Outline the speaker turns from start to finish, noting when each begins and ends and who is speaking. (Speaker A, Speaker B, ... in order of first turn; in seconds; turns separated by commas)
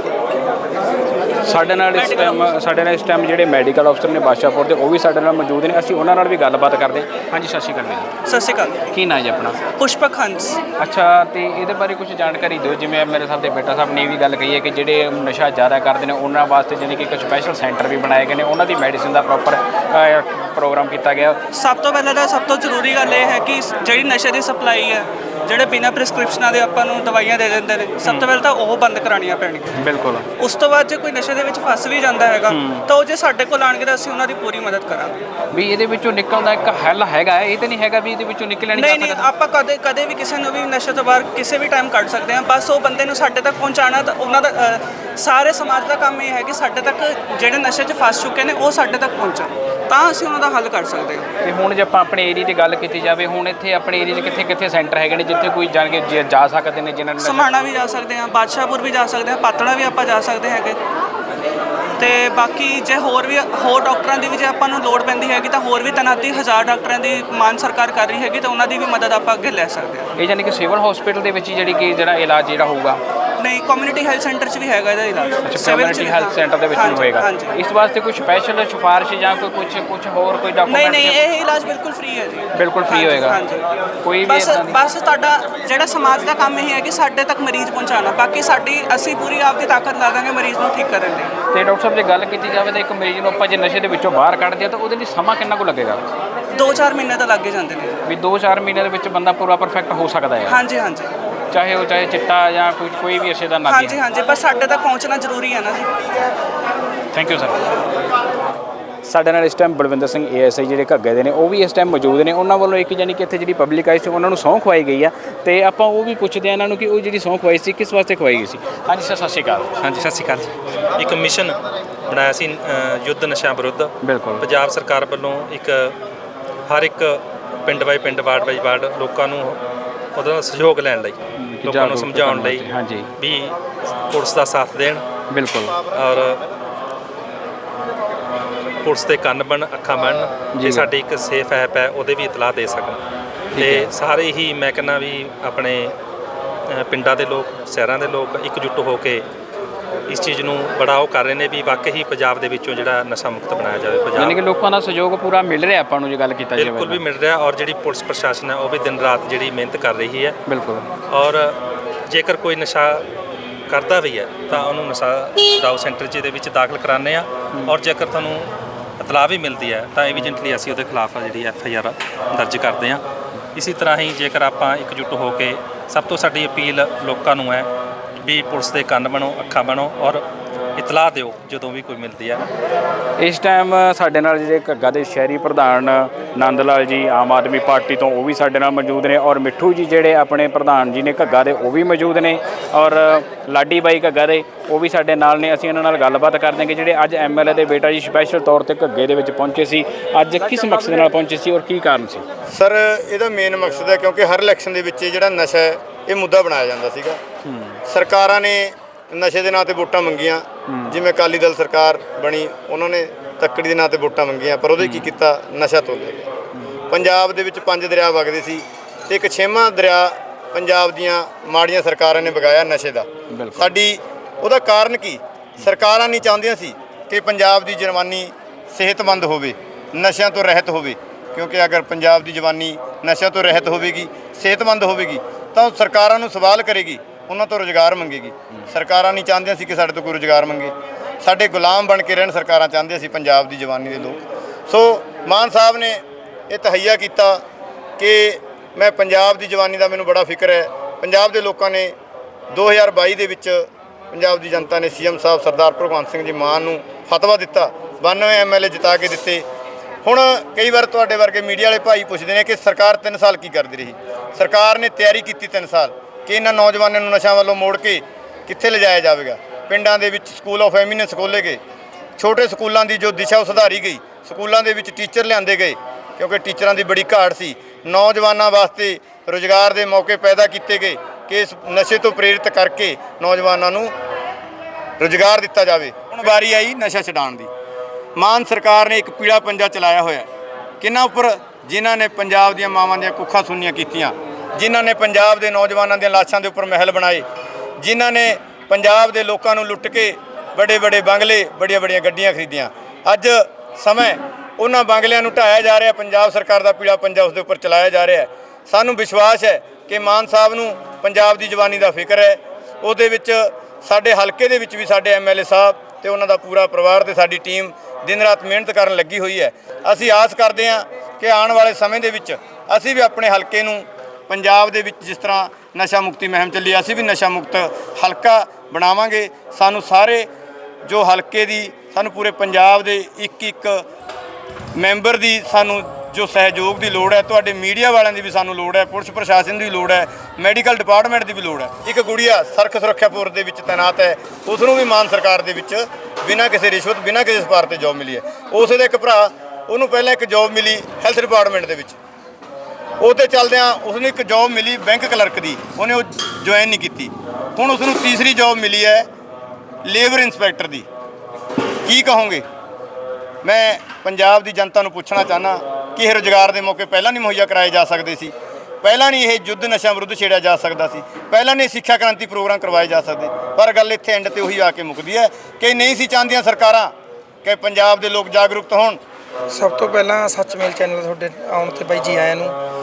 Speaker A: 1.4-8.1, Speaker B: 1.9-2.6, Speaker B: 8.3-8.8, Speaker A: 8.9-9.6, Speaker B: 9.8-10.6, Speaker A: 10.8-21.4, Speaker B: 21.5-29.8, Speaker A: 28.0-28.3, Speaker A: 29.8-30.3, Speaker B: 30.4-35.2, Speaker A: 32.5-32.9, Speaker A: 35.5-39.3, Speaker B: 38.7-51.2, Speaker A: 51.4-57.5, Speaker B: 57.2-60.8, Speaker B: 62.0-70.1, Speaker A: 70.2-73.0, Speaker B: 73.4-77.5, Speaker A: 75.4-81.2, Speaker B: 80.7-83.6, Speaker A: 82.5-83.4, Speaker A: 84.0-84.8, Speaker B: 84.2-91.3, Speaker A: 91.5-96.0, Speaker B: 96.5-98.0, Speaker A: 98.0-100.6, Speaker B: 100.5-101.1, Speaker A: 101.5-104.0, Speaker B: 103.7-106.0, Speaker A: 107.1-107.6, Speaker A: 109.0-119.7, Speaker C: 119.8-125.9, Speaker A: 124.0-124.5, Speaker C: 126.7-129.6, Speaker C: 130.2-132.7, Speaker A: 131.4-133.1, Speaker C: 133.2-133.6, Speaker C: 134.1-135.1, Speaker A: 135.3-135.8, Speaker C: 135.9-136.4, Speaker C: 138.8-143.0, Speaker A: 140.6-140.9, Speaker A: 143.5-143.9, Speaker C: 143.6-145.9, Speaker C: 146.7-149.2, Speaker C: 150.1-154.4, Speaker A: 154.2-157.0, Speaker C: 156.6-160.4, Speaker A: 160.5-160.9, Speaker C: 161.1-161.6, Speaker C: 162.1-163.0, Speaker C: 163.7-177.7, Speaker C: 178.2-180.2, Speaker C: 180.8-182.4, Speaker A: 183.2-202.2, Speaker D: 202.5-207.2, Speaker A: 207.4-207.8, Speaker D: 207.9-216.3, Speaker A: 210.7-210.9, Speaker A: 214.8-215.1, Speaker D: 216.9-247.4, Speaker A: 223.3-223.8, Speaker D: 248.0-251.9, Speaker D: 252.5-259.4, Speaker D: 260.0-271.6, Speaker D: 272.2-283.9, Speaker D: 285.0-287.5, Speaker D: 288.2-290.3, Speaker D: 290.8-297.2, Speaker D: 297.8-330.3, Speaker D: 330.9-333.9, Speaker D: 334.8-352.0, Speaker D: 353.0-359.1, Speaker D: 359.9-360.9, Speaker D: 361.9-362.4, Speaker D: 363.4-376.9, Speaker D: 377.4-379.0, Speaker E: 379.5-382.6